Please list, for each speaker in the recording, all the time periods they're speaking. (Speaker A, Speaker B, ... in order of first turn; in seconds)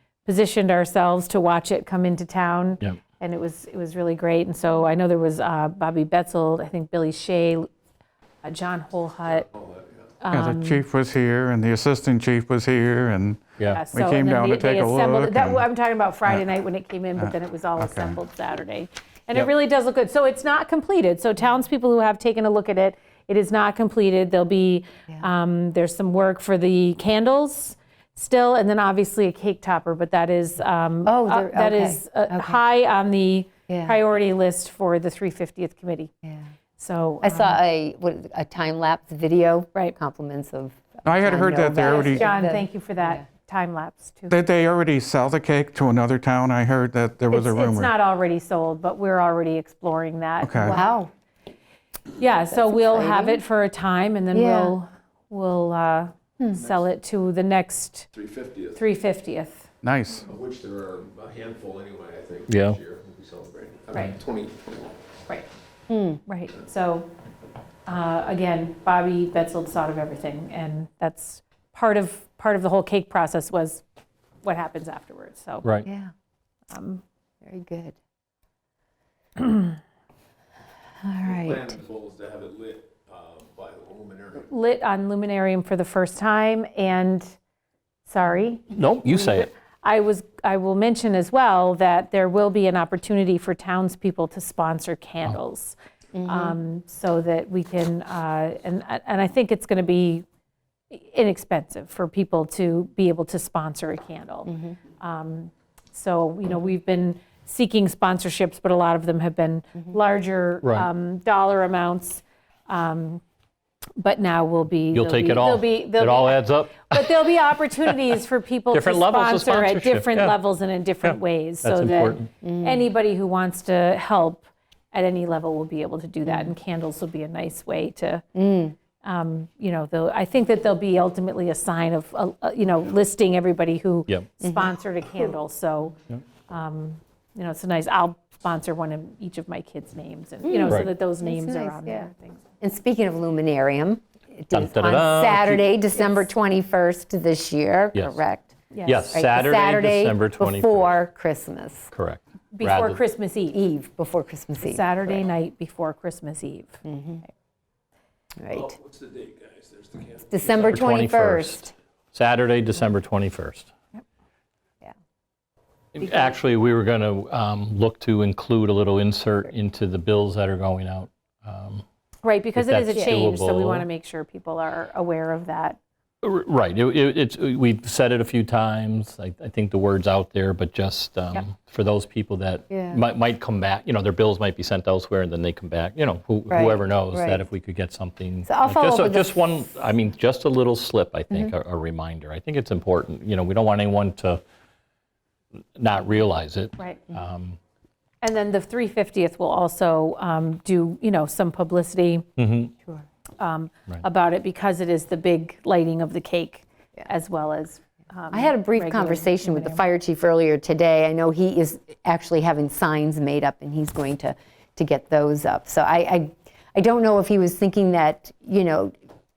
Speaker A: 0.2-7.7, 8.4-9.5, 10.2-10.8, 13.7-36.1, 36.8-37.6, 41.8-44.4, 47.3-50.8, 52.2-58.1, 58.7-59.7, 66.2-67.1, 67.9-73.8, 74.4-75.7, 76.7-77.0, 84.4-87.4, 88.1-100.2, 100.9-113.2, 114.0-128.3, 129.0-136.0, 136.5-142.4, 146.0-146.2, 148.7-149.0, 152.5-153.6, 154.6-157.3, 172.2-175.8, 198.2-202.2, 203.4-209.8
Speaker B: 10.3-15.7, 17.2-18.2, 41.0-42.3, 44.3-47.9, 50.4-50.8, 59.8-60.2
Speaker C: 31.1-32.6, 33.7-34.0, 37.2-43.2, 50.6-51.1, 52.5-53.4, 54.3-54.7, 65.9-66.2, 75.8-76.1, 77.4-78.0, 81.0-81.8, 96.1-96.6, 104.5-104.8, 122.4-122.8, 126.2-126.5, 128.3-128.8, 134.4-134.7, 140.4-151.9, 153.5-155.2, 156.8-157.2, 158.4-158.8, 160.2-161.7, 182.7-183.0, 186.5-187.4, 188.4-189.4, 208.3-219.0
Speaker D: 58.1-58.7, 60.3-64.8, 81.3-84.4, 158.8-160.1
Speaker E: 62.5-62.8, 88.7-89.5, 114.9-118.1, 118.7-120.4, 121.0-122.3, 144.5-145.7, 147.9-148.2, 148.8-151.0, 151.9-153.0, 160.5-163.7, 165.9-171.8, 172.6-173.8, 176.2-194.4, 195.8-197.6, 202.4-202.7